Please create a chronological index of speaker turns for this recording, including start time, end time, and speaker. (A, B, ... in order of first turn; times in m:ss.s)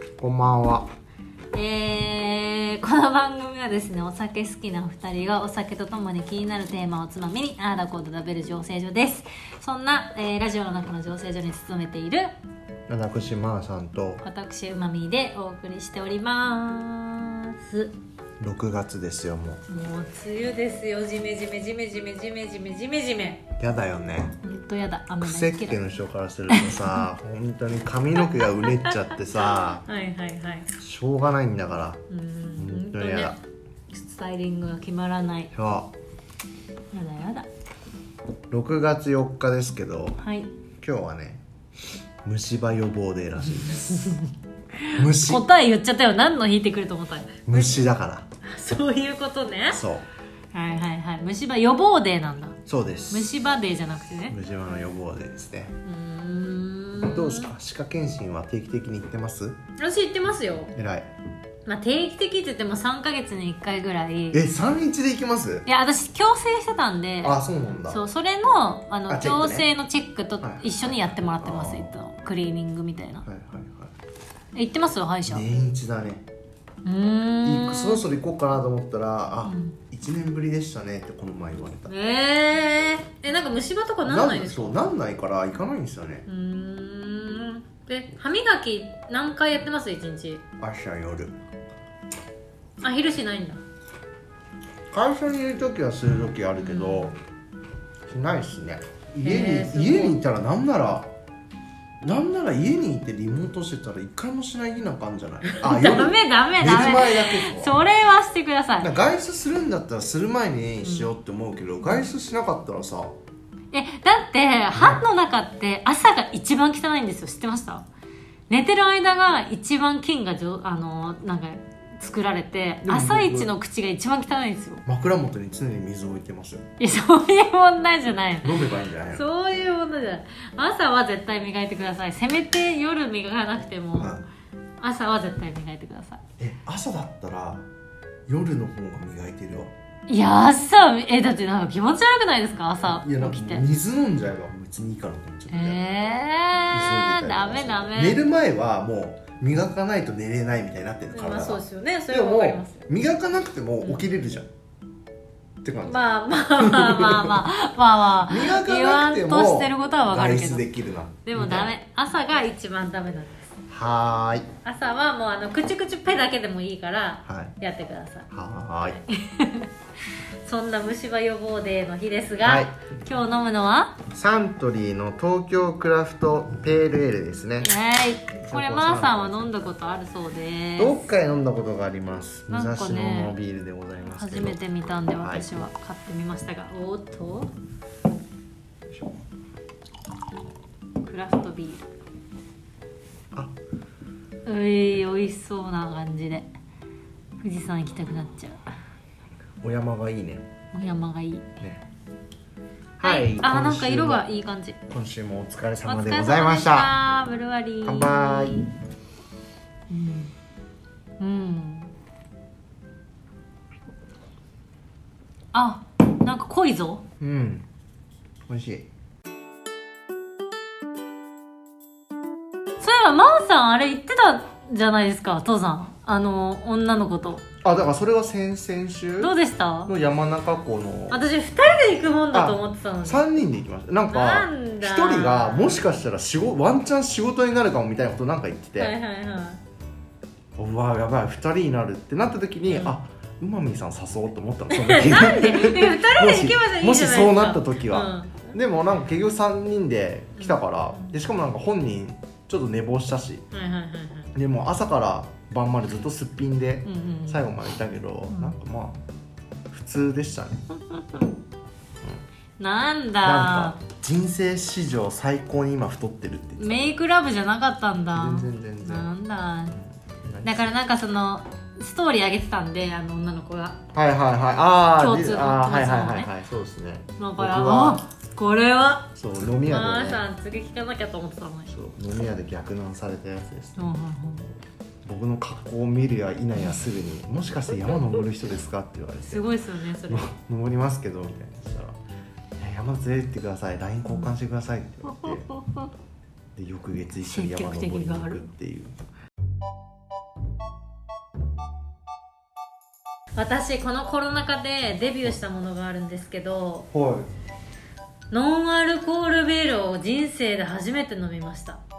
0:00.2-0:00.9 A
0:01.5-0:12.3 B
0:12.9-0:14.2 A
0:14.2-0:17.9 B
0:18.4-0:19.6 A
0:19.7-0:23.5 B
0:23.6-0:24.3 A
0:24.4-0:25.8 B
0:25.2-0:29.8 A
0:26.5-0:27.0 B
0:28.7-0:29.1 B
0:29.7-0:30.7 B
0:30.8-0:32.0 A
0:32.1-0:33.4 B
0:32.6-0:33.3 A
0:33.9-0:35.5 B
0:35.5-0:35.9 A
0:36.9-0:37.5 B
0:38.5-0:40.2 A
0:40.2-0:40.5 B
0:40.8-0:41.4 A
0:42.2-0:44.1 A
0:43.9-0:47.8 B
0:44.9-0:45.4 A
0:47.5-0:48.2 A
0:48.4-0:49.8 B
0:49.7-0:50.0 A
0:50.5-0:52.6 B
0:52.7-0:53.3 A
0:53.1-0:54.4 B
0:54.3-0:55.7 A
0:55.8-0:57.5 B
0:57.0-0:59.6 A
0:59.8-1:00.7 B
1:00.8-1:01.1 A
1:01.7-1:04.4 B
1:04.3-1:05.7 A
1:05.7-1:13.2 B
1:07.2-1:08.0 A
1:09.1-1:09.7 A
1:10.4-1:11.9 A
1:13.2-1:13.9 A
1:14.6-1:15.5 B
1:15.3-1:16.2 A
1:16.8-1:18.0 B
1:17.4-1:21.9 A
1:19.4-1:19.8 B
1:21.9-1:24.8 B
1:24.0-1:26.2 A
1:26.2-1:30.4 B
1:30.6-1:31.4 A
1:32.8-1:33.6 B
1:34.9-1:37.2 A
1:36.6-1:37.1 B
1:38.1-1:41.1 A
1:39.2-1:40.2 B
1:42.0-1:47.8 A
1:45.4-1:48.9 B
1:48.8-1:53.1 A
1:50.8-1:51.1 B
1:53.7-1:57.8 B
1:54.7-1:55.0 A
1:58.5-2:04.8 B
2:02.8-2:03.5 A
2:04.9-2:06.6 A
2:06.8-2:14.2 B
2:08.4-2:09.2 A
2:14.0-2:14.2 A
2:14.8-2:16.2 B
2:16.4-2:17.6 A
2:18.3-2:19.7 A
2:20.1-2:23.7 B
2:22.8-2:25.8 A
2:25.5-2:28.2 B
2:26.7-2:34.5 A
2:31.1-2:32.8 B
2:35.6-2:36.0 A
2:35.8-2:40.7 B
2:36.5-2:37.5 A
2:38.3-2:41.7 A
2:41.2-2:43.5 B
2:43.7-2:44.5 A
2:44.6-2:48.3 B
2:47.3-2:47.6 A
2:48.3-2:49.0 A
2:48.9-2:49.7 B
2:50.4-2:54.0 B
2:52.4-2:52.8 A
2:54.1-2:57.7 A
2:57.6-3:01.0 B
2:58.5-2:59.8 A
3:00.8-3:04.6 A
3:02.5-3:03.4 B
3:04.1-3:07.5 B
3:05.1-3:05.5 A
3:08.9-3:09.2 A
3:11.0-3:11.8 B
3:14.5-3:16.5 B
3:17.4-3:18.6 B
3:19.6-3:20.4 A
3:20.7-3:21.5 B
3:23.0-3:24.3 A
3:23.0-3:24.8 B
3:24.9-3:27.0 A
3:25.8-3:28.7 B
3:27.8-3:28.6 A
3:29.9-3:30.3 B
3:31.2-3:31.9 B
3:35.5-3:37.0 B
3:37.2-3:37.7 A
3:38.5-3:38.9 A
3:42.8-3:47.4 B
3:47.6-3:49.3 A
3:49.2-3:49.9 B
3:49.9-3:51.3 A
3:51.1-3:53.2 B
3:52.3-3:59.0 A
3:54.1-3:55.9 B
3:58.8-3:59.6 B
4:00.6-4:13.4 A
4:02.7-4:03.0 B
4:04.7-4:08.5 B
4:10.4-4:11.1 B
4:13.5-4:14.3 B
4:14.3-4:19.0 A
4:16.8-4:17.4 B
4:18.3-4:18.6 B
4:19.7-4:20.6 A
4:22.6-4:23.8 B
4:23.2-4:26.9 A
4:26.6-4:29.8 B
4:28.1-4:29.1 A
4:30.2-4:30.7 A
4:30.4-4:33.8 B
4:33.9-4:38.0 A
4:35.0-4:36.3 B
4:37.2-4:41.7 B
4:39.2-4:40.2 A
4:41.7-4:43.9 A
4:43.8-4:44.5 B
4:45.0-4:49.5 A
4:49.2-4:50.3 B
4:50.1-4:52.0 A
4:52.6-4:55.5 A
4:54.1-4:54.3 B
4:55.0-4:55.9 B
4:56.6-4:59.0 A
4:57.2-4:58.5 B
5:03.4-5:06.9 B
5:06.9-5:07.3 A
5:08.3-5:11.8 B